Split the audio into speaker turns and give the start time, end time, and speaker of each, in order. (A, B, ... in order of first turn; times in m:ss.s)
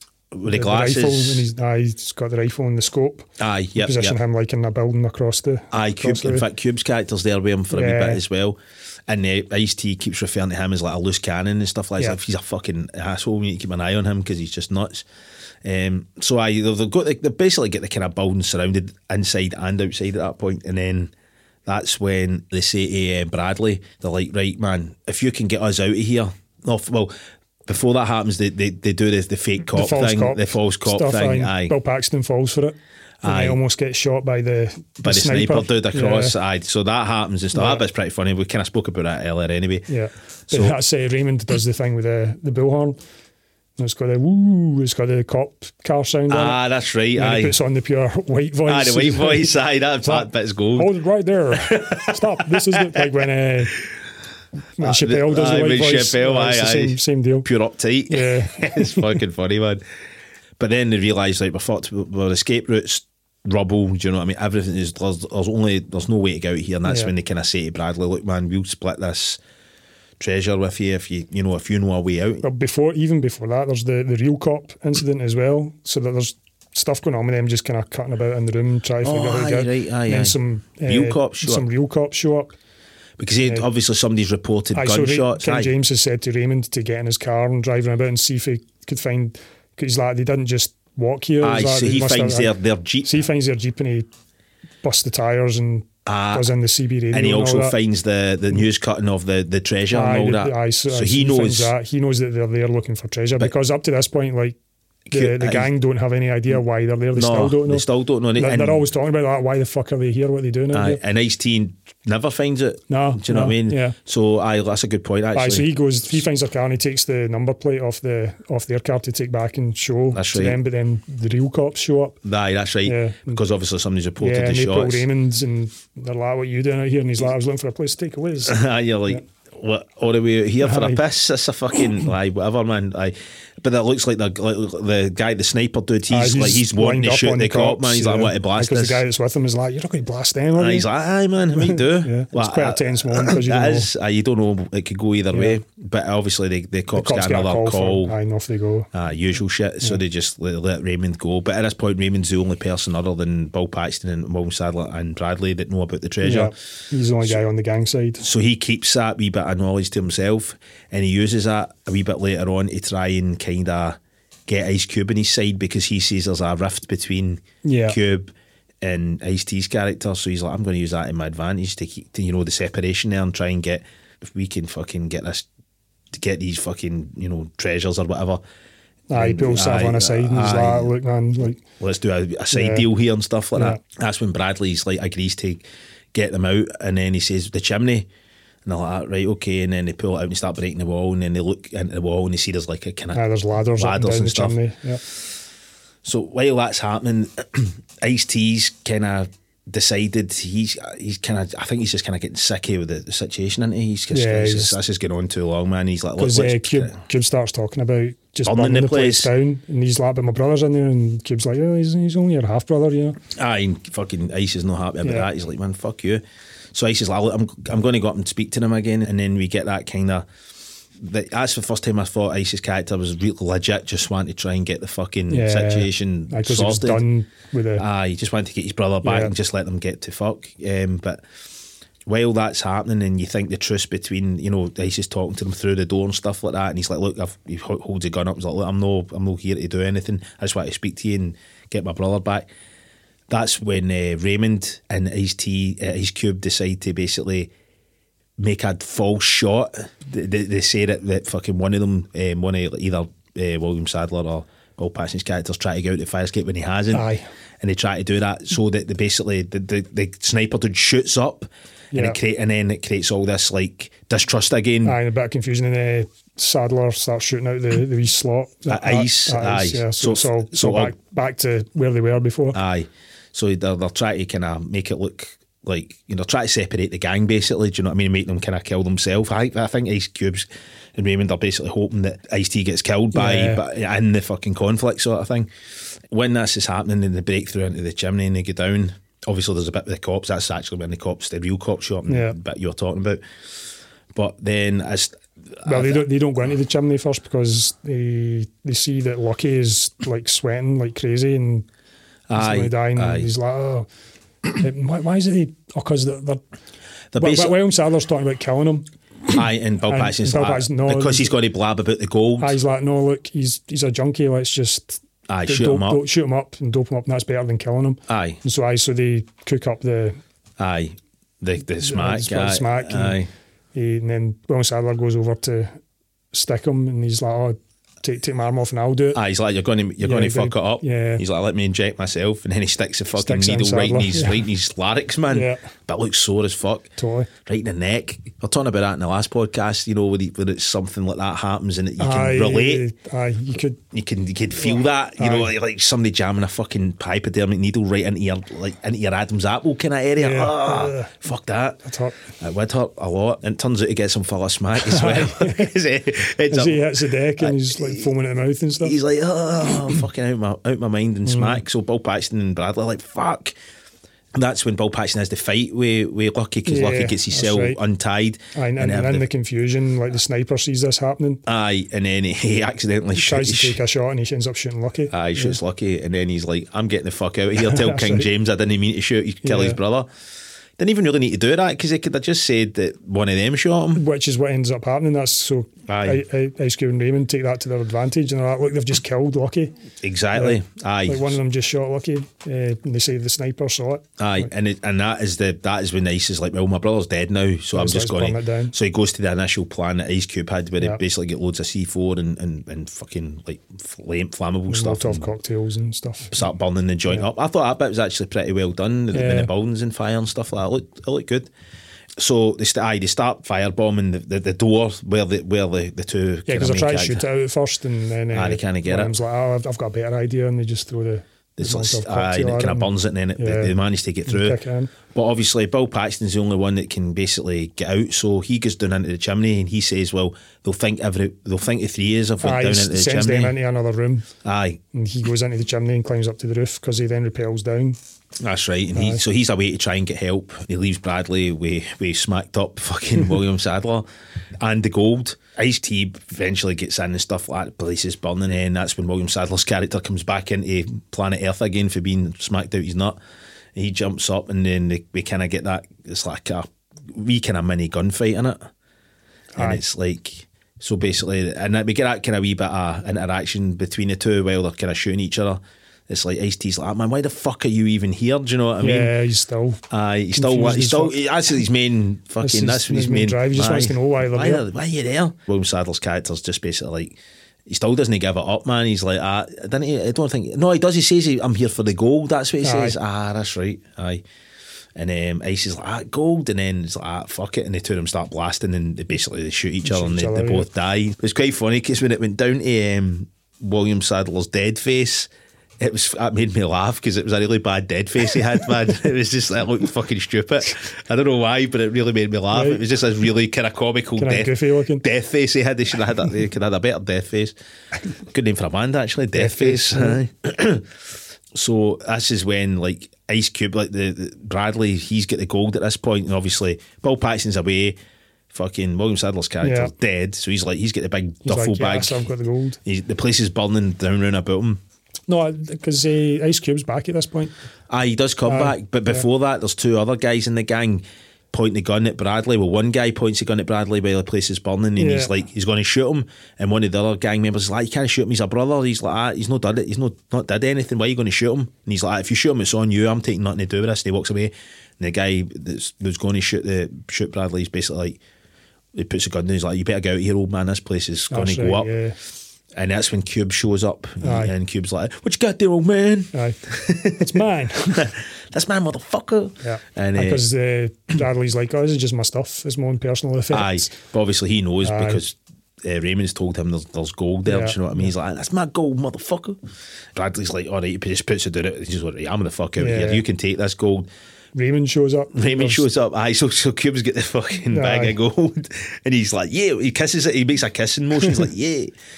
0:00.3-0:01.5 A
0:00.4-0:06.4 B
0:03.4-0:04.2 A
0:05.7-0:15.0 A
0:07.7-0:08.2 B
0:15.6-0:21.1 A
0:21.6-0:27.1 A
0:27.6-0:31.7 A
0:29.7-0:36.4 B
0:33.2-0:33.6 A
0:35.0-0:39.9 A
0:37.5-0:37.8 B
0:39.9-0:43.0 B
0:40.5-0:40.7 A
0:43.8-0:46.6 B
0:46.3-0:47.6 A
0:47.1-0:53.8 B
0:48.6-0:50.9 A
0:51.5-0:53.1 A
0:54.8-0:57.5 B
0:54.8-0:59.8 A
0:58.1-0:59.1 B
1:00.6-1:09.4 A
1:06.8-1:07.1 B
1:10.2-1:12.4 A
1:12.4-1:22.5 B
1:19.0-1:21.6 A
1:23.2-1:25.7 A
1:24.7-1:32.5 B
1:31.4-1:33.2 A
1:33.0-1:34.1 B
1:34.8-1:37.8 B
1:36.0-1:36.5 A
1:37.1-1:41.7 A
1:39.9-1:44.6 B
1:45.1-1:45.7 A
1:45.1-1:47.8 B
1:47.1-1:48.8 A
1:48.4-1:51.0 B
1:50.7-1:55.7 A
1:52.9-1:54.0 B
1:55.3-2:02.2 B
2:00.1-2:00.6 A
2:02.2-2:05.1 A
2:02.8-2:03.4 B
2:04.2-2:09.2 B
2:08.4-2:19.0 A
2:10.6-2:11.0 B
2:16.1-2:20.9 B
2:20.5-2:28.2 A
2:21.5-2:23.9 B
2:25.3-2:25.6 B
2:26.9-2:28.9 B
2:28.9-2:36.5 A
2:36.2-2:38.2 B
2:38.2-2:55.4 A
2:47.6-2:48.0 B
2:56.1-2:58.4 A
2:59.1-3:01.6 B
2:59.1-3:00.9 A
3:01.4-3:08.1 A
3:02.5-3:02.9 B
3:03.5-3:03.8 B
3:08.6-3:13.2 A
3:13.1-3:15.0 B
3:13.7-3:14.6 A
3:16.0-3:27.0 A
3:24.1-3:24.8 B
3:26.2-3:33.2 B
3:28.4-3:29.3 A
3:33.3-3:40.3 A
3:35.0-3:35.3 B
3:41.0-3:47.0 A
3:45.3-3:47.8 B
3:47.8-3:51.2 A
3:49.0-3:49.3 B
3:52.0-4:02.5 A
4:03.3-4:07.5 A
4:08.4-4:17.1 A
4:16.9-4:17.2 B
4:17.6-4:25.0 A
4:21.9-4:22.2 B
4:24.8-4:32.6 B
4:28.7-4:30.9 A
4:32.5-4:45.5 A
4:43.1-4:43.6 B
4:46.1-4:53.2 A
4:52.1-4:52.4 B
4:54.1-4:56.0 A
4:55.6-5:01.7 B
5:02.3-5:03.3 A
5:02.3-5:03.9 B
5:04.6-5:06.4 B
5:07.1-5:07.6 A
5:07.2-5:08.9 B
5:09.3-5:12.6 A
5:09.8-5:11.3 B
5:12.4-5:20.2 B
5:15.3-5:16.0 A
5:18.1-5:18.4 A
5:20.6-5:23.3 A
5:21.8-5:23.2 B
5:23.7-5:25.8 B
5:26.3-5:29.2 B
5:29.1-5:36.9 A
5:30.0-5:31.2 B
5:33.2-5:34.4 B
5:35.3-5:35.6 B
5:37.0-5:37.3 B
5:37.4-5:42.8 A
5:42.0-5:43.8 B
5:43.9-5:51.8 A
5:44.6-5:45.5 B
5:50.2-5:51.2 B
5:51.8-5:52.2 B
5:52.4-5:58.1 A
5:54.8-5:55.7 B
5:56.5-5:58.9 B
5:58.8-6:03.6 A
6:01.2-6:01.6 B
6:04.3-6:09.2 A
6:06.6-6:07.8 B
6:08.5-6:11.4 B
6:11.4-6:13.8 A
6:13.1-6:15.6 B
6:15.1-6:20.1 A
6:17.6-6:18.3 B
6:19.4-6:19.8 B
6:20.8-6:24.0 A
6:23.9-6:29.7 B
6:25.9-6:26.2 A
6:30.0-6:31.4 A
6:30.3-6:34.5 B
6:34.2-6:45.3 A
6:37.7-6:38.7 B
6:44.7-6:46.4 B
6:46.3-6:51.5 A
6:49.1-6:49.5 B
6:52.2-6:57.2 A
6:56.5-7:04.9 B
6:58.3-6:59.2 A
7:01.6-7:13.6 A
7:12.4-7:14.3 B
7:14.4-7:14.8 A
7:14.9-7:18.0 B
7:18.4-7:24.1 A
7:18.9-7:19.2 B
7:24.6-7:33.2 A
7:33.7-7:38.7 A
7:39.5-7:39.8 B
7:39.6-7:49.1 A
7:48.8-7:49.8 B
7:49.9-8:04.2 A
7:50.3-7:51.2 B
7:52.4-7:54.6 B
8:02.6-8:03.0 B
8:05.0-8:27.5 A
8:09.8-8:10.7 B
8:22.5-8:22.8 B
8:24.2-8:25.0 B
8:28.3-8:30.9 A
8:29.3-8:30.2 B
8:31.5-8:38.0 A
8:38.5-8:42.2 A
8:39.6-8:39.9 B
8:41.4-8:42.8 B
8:42.8-8:44.8 A
8:45.3-8:47.5 B
8:47.9-9:08.2 A
8:48.5-8:49.2 B
8:55.0-8:55.3 B
9:08.9-9:11.9 A
9:11.3-9:12.2 B
9:12.7-9:20.4 A
9:14.2-9:14.5 B
9:16.3-9:16.6 B
9:17.2-9:18.1 B
9:19.6-9:23.9 B
9:23.5-9:29.6 A
9:24.8-9:25.2 B
9:27.5-9:28.1 B
9:30.1-9:34.1 A
9:32.8-9:33.2 B
9:34.5-9:35.9 B
9:35.3-9:41.9 A
9:37.7-9:38.2 B